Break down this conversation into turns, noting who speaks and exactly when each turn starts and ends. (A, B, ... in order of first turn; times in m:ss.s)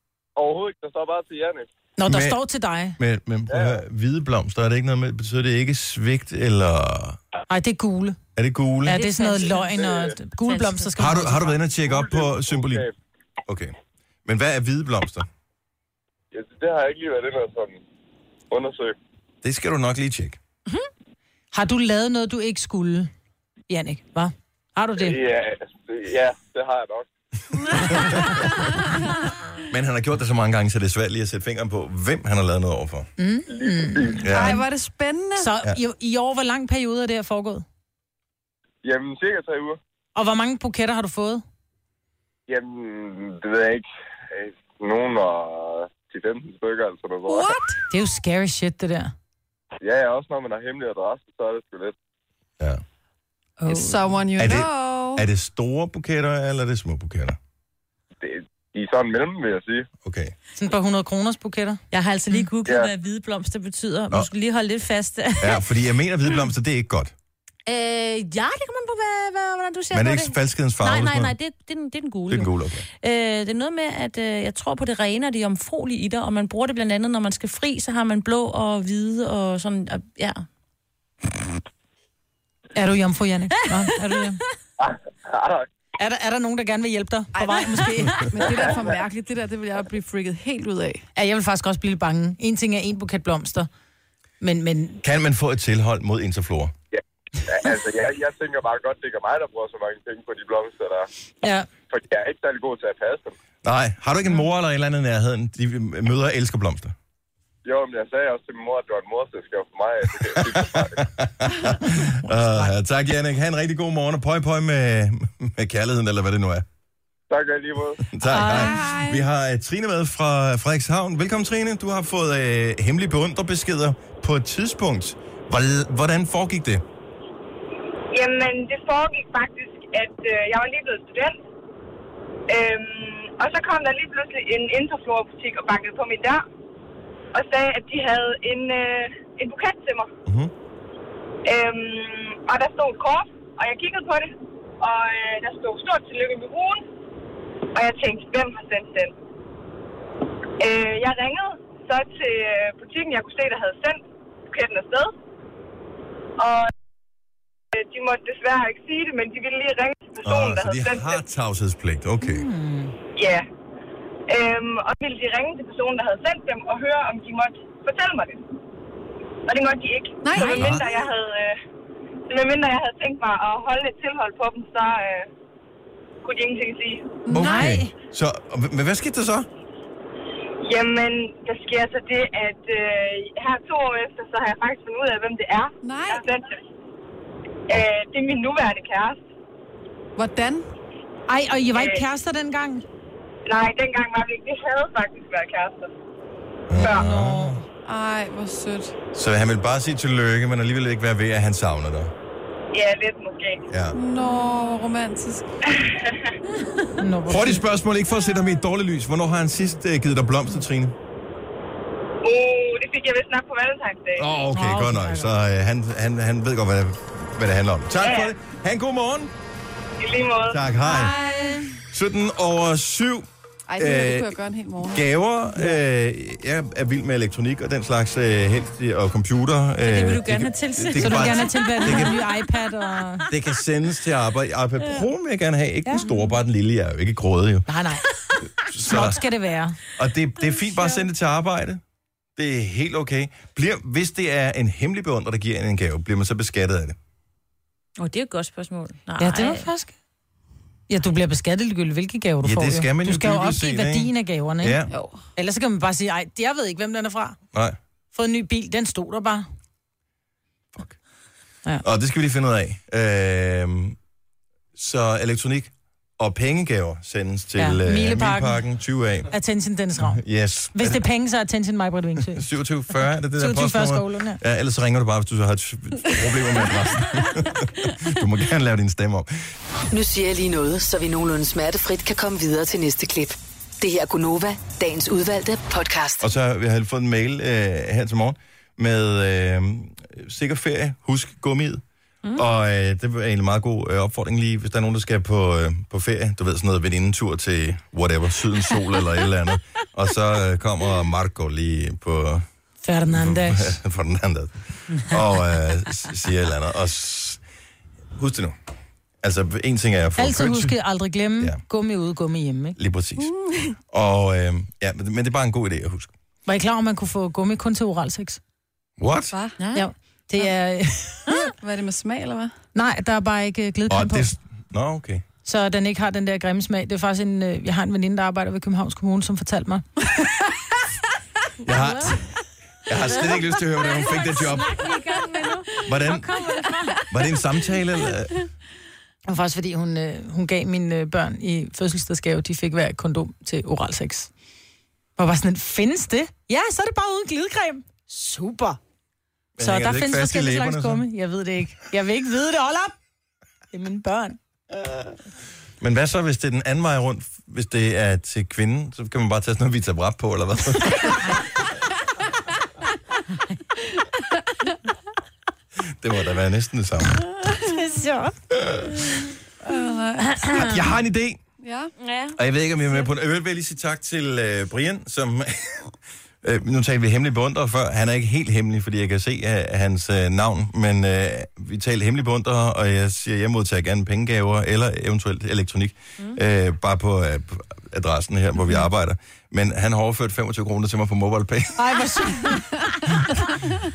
0:00.4-0:01.7 A
0:02.0-0:03.0 B
0:02.1-0:02.4 C
0:03.0-0:07.2 C
0:03.5-0:03.8 A
0:07.5-0:08.2 B
0:08.4-0:09.0 C
0:08.8-0:11.6 B
0:08.9-0:10.9 D
0:09.8-0:10.1 A
0:11.0-0:12.8 C
0:11.9-0:12.9 A
0:13.4-0:13.7 C
0:14.2-0:15.3 C
0:16.3-0:17.8 A
0:18.5-0:19.0 A
0:19.4-0:20.4 C
0:21.5-0:23.1 B
0:23.7-0:25.2 B
0:25.0-0:27.1 A
0:27.7-0:29.0 E
0:29.7-0:33.1 C
0:33.2-0:34.6 B
0:33.5-0:34.3 A
0:34.2-0:34.6 C
0:34.3-0:35.5 E
0:35.4-0:37.6 B
0:38.8-0:39.8 A
0:40.2-0:41.4 B
0:42.5-0:47.6 A
0:47.3-0:47.8 E
0:47.9-0:49.1 B
0:49.8-0:52.0 A
0:53.6-0:54.1 B
0:53.7-0:55.2 E
0:54.4-0:57.4 C
0:58.2-0:59.8 A
1:00.0-1:00.3 C
1:00.6-1:01.8 B
1:01.9-1:05.7 D
1:02.6-1:02.9 A
1:05.4-1:07.1 C
1:07.7-1:20.4 D
1:09.9-1:11.3 C
1:12.3-1:12.8 C
1:22.7-1:24.4 B
1:24.8-1:25.6 A
1:26.0-1:28.2 B
1:27.3-1:31.0 E
1:31.2-1:33.7 B
1:34.4-1:35.0 B
1:35.0-1:36.7 C
1:37.0-1:41.1 A
1:41.9-1:43.3 A
1:43.6-1:46.9 C
1:47.6-1:51.0 A
1:50.3-1:56.6 C
1:52.2-1:52.7 B
1:57.3-1:58.0 A
1:58.0-2:06.8 C
1:58.3-1:58.8 B
1:58.3-1:59.2 E
2:08.1-2:11.4 F
2:12.5-2:16.4 F
2:17.3-2:20.1 F
2:20.2-2:20.5 C
2:21.4-2:26.8 F
2:27.7-2:29.1 F
2:30.6-2:35.1 F
2:36.4-2:36.7 F
2:37.7-2:41.2 F
2:40.2-2:42.5 C
2:42.2-2:42.9 B
2:43.2-2:43.5 F
2:44.3-2:48.5 F
2:49.5-2:51.6 F
2:50.2-2:50.8 E
2:50.6-2:50.8 C
2:52.3-2:55.3 F
2:56.2-2:57.2 F
2:57.2-2:57.8 E
2:57.3-2:59.5 C
2:57.3-2:57.9 B
3:00.6-3:06.6 F
3:05.8-3:06.2 E
3:07.7-3:09.2 F
3:10.2-3:10.6 E
3:11.3-3:12.8 B
3:11.7-3:12.0 F
3:13.4-3:15.9 F
3:16.7-3:17.6 C
3:16.7-3:17.1 F
3:16.8-3:17.6 B
3:17.8-3:18.9 E
3:19.1-3:22.1 C
3:22.7-3:23.6 F
3:23.7-3:24.0 C
3:23.9-3:25.4 E
3:25.7-3:26.3 F
3:27.0-3:27.6 B
3:27.3-3:30.9 C
3:32.2-3:34.3 F
3:34.2-3:39.3 C
3:34.5-3:35.3 B
3:38.0-3:38.3 F
3:40.0-3:40.6 F
3:40.5-3:41.1 C
3:40.8-3:41.8 E
3:41.9-3:43.3 C
3:43.7-3:45.0 E
3:43.8-3:44.4 C
3:44.9-3:52.2 C
3:49.8-3:52.4 D
3:51.0-3:53.3 B
3:53.3-3:57.7 C
3:56.0-3:56.3 D
3:57.7-3:58.1 B
3:58.6-3:59.2 C
3:58.8-3:59.8 B
3:59.9-4:01.8 C
4:00.5-4:01.0 D
4:02.4-4:07.0 C
4:08.0-4:09.7 D
4:09.2-4:09.9 B
4:10.9-4:14.8 B
4:12.4-4:14.9 C
4:14.9-4:15.2 E
4:15.4-4:17.4 B
4:18.1-4:19.5 B
4:21.8-4:24.0 C
4:24.8-4:29.3 C
4:27.6-4:28.6 B
4:29.3-4:30.2 B
4:30.0-4:31.0 C
4:30.7-4:32.4 B
4:32.2-4:39.3 C
4:33.4-4:34.4 B
4:39.9-4:46.2 G
4:46.2-4:51.8 C
4:52.3-5:02.4 C
5:02.8-5:03.8 B
5:03.1-5:07.4 C
5:08.1-5:08.6 C
5:09.2-5:10.8 C
5:10.2-5:12.8 B
5:12.8-5:13.3 C
5:13.2-5:13.8 E
5:13.9-5:16.1 C
5:16.4-5:18.4 B
5:19.0-5:19.3 C
5:19.6-5:19.8 D
5:19.7-5:21.5 B
5:21.6-5:22.5 E
5:22.7-5:24.3 B
5:23.9-5:25.2 C
5:25.4-5:29.8 B
5:31.6-5:32.3 C
5:31.7-5:32.1 B
5:32.8-5:34.9 C
5:33.8-5:35.7 D
5:35.8-5:36.3 C
5:36.0-5:37.0 B
5:37.1-5:38.4 C
5:39.3-5:44.3 B
5:45.2-5:48.8 B
5:49.6-5:51.0 C
5:49.6-5:52.9 B
5:53.7-5:54.4 B
5:54.7-5:55.1 C
5:55.8-6:01.4 C
6:05.8-6:07.3 C
6:07.6-6:08.3 B
6:08.5-6:09.3 C
6:09.6-6:10.8 E
6:10.5-6:11.4 C
6:11.6-6:11.9 E
6:12.0-6:13.1 D
6:12.3-6:32.0 C
6:31.8-6:32.9 B